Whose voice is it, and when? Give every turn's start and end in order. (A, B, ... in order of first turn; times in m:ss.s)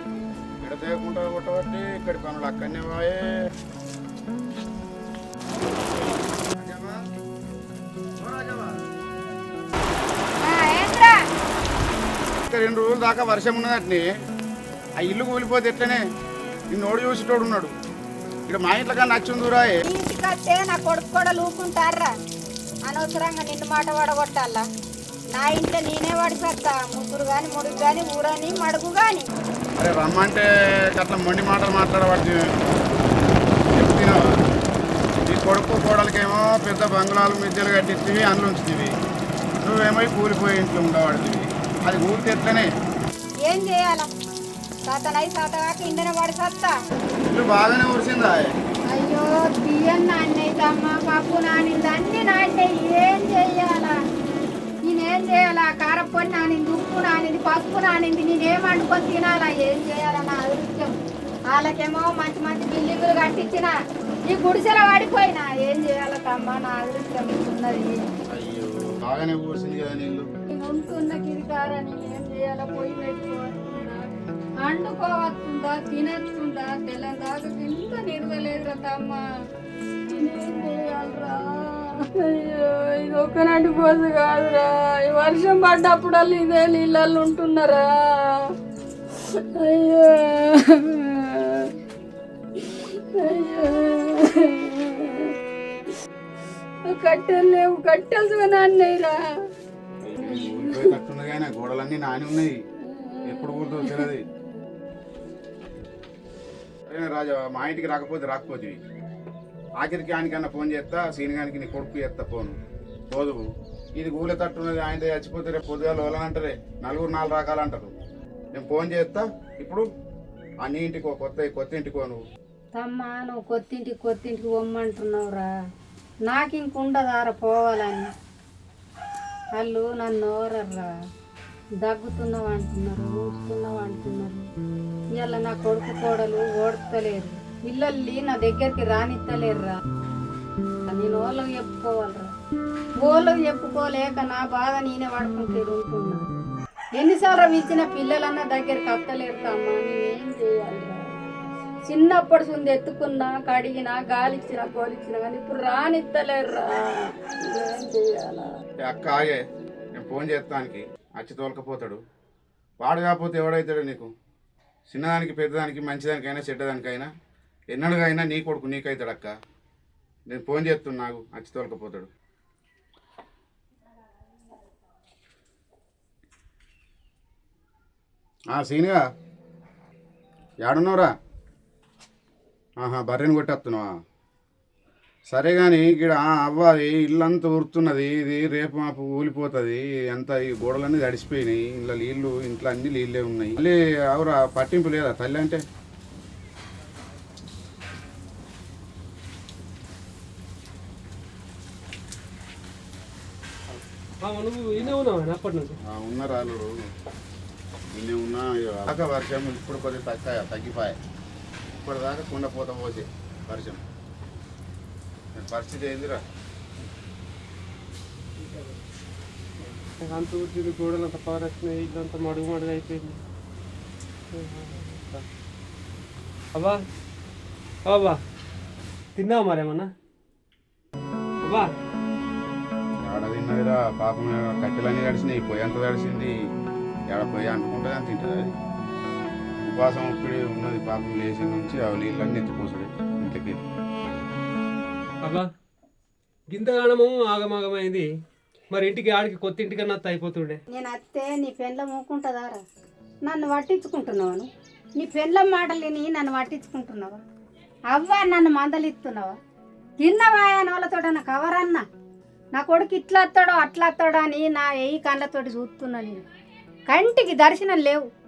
0:00.6-0:03.5 A
0:06.5-0:07.0 A
0:08.2-0:08.8 A
0:10.4-0:11.2 B
0:12.5-0:14.1 A
0:15.0-0:16.0 A
0:16.7-0:17.7 A
0:18.5-0:19.8 A
0:19.8-0:22.1 B
0:22.9-0:24.7 B
0:25.3-0:29.3 B
0:29.8-0:32.6 A
0:33.7-0:34.3 A
0:35.3-0:38.9 A
0:39.6-0:42.7 A
0:43.4-0:44.1 B
0:44.8-0:46.8 B
0:47.2-0:48.5 A
0:48.9-0:54.0 B
0:54.8-1:01.0 B
1:01.5-1:03.7 B
1:04.3-1:08.1 B
1:08.3-1:10.3 A
1:10.5-1:14.1 B
1:14.6-1:19.2 B
1:20.1-1:28.5 B
1:29.3-1:31.7 B
1:32.9-1:35.3 B
1:36.9-1:39.2 B
1:40.0-1:42.6 A
1:40.2-1:41.0 B
1:42.9-1:44.1 B
1:43.2-1:44.2 A
1:46.9-1:48.8 A
1:49.8-1:52.6 A
1:53.1-1:53.4 A
1:54.0-1:57.9 A
1:58.5-1:59.9 A
2:00.6-2:02.2 A
2:02.8-2:05.5 B
2:06.3-2:08.1 B
2:09.6-2:10.9 B
2:11.8-2:14.4 B
2:15.2-2:19.8 B
2:20.9-2:22.3 B
2:23.0-2:26.3 B
2:27.0-2:31.0 B
2:31.9-2:38.5 B
2:38.8-2:39.4 A
2:40.0-2:42.0 A
2:42.8-2:44.1 A
2:44.9-2:47.1 A
2:47.7-2:49.3 A
2:50.3-2:52.1 A
2:58.5-2:59.0 A
3:00.6-3:01.1 A
3:02.8-3:03.9 A
3:05.3-3:15.6 A
3:23.7-3:25.8 C
3:25.8-3:26.8 A
3:27.9-3:31.0 A
3:31.8-3:33.8 A
3:35.4-3:36.2 A
3:38.4-3:38.8 C
3:39.6-3:43.2 C
3:44.3-3:45.3 C
3:46.6-3:46.8 C
3:47.9-3:48.2 C
3:49.2-3:49.9 C
3:51.4-3:51.7 C
3:53.0-3:56.3 A
3:57.1-3:58.5 A
3:59.6-4:03.6 A
4:05.2-4:05.5 C
4:06.5-4:08.1 C
4:08.7-4:10.6 C
4:10.7-4:12.6 B
4:13.3-4:14.5 B
4:15.0-4:17.2 B
4:17.9-4:19.3 B
4:20.0-4:21.8 B
4:22.6-4:26.2 B
4:26.9-4:28.1 B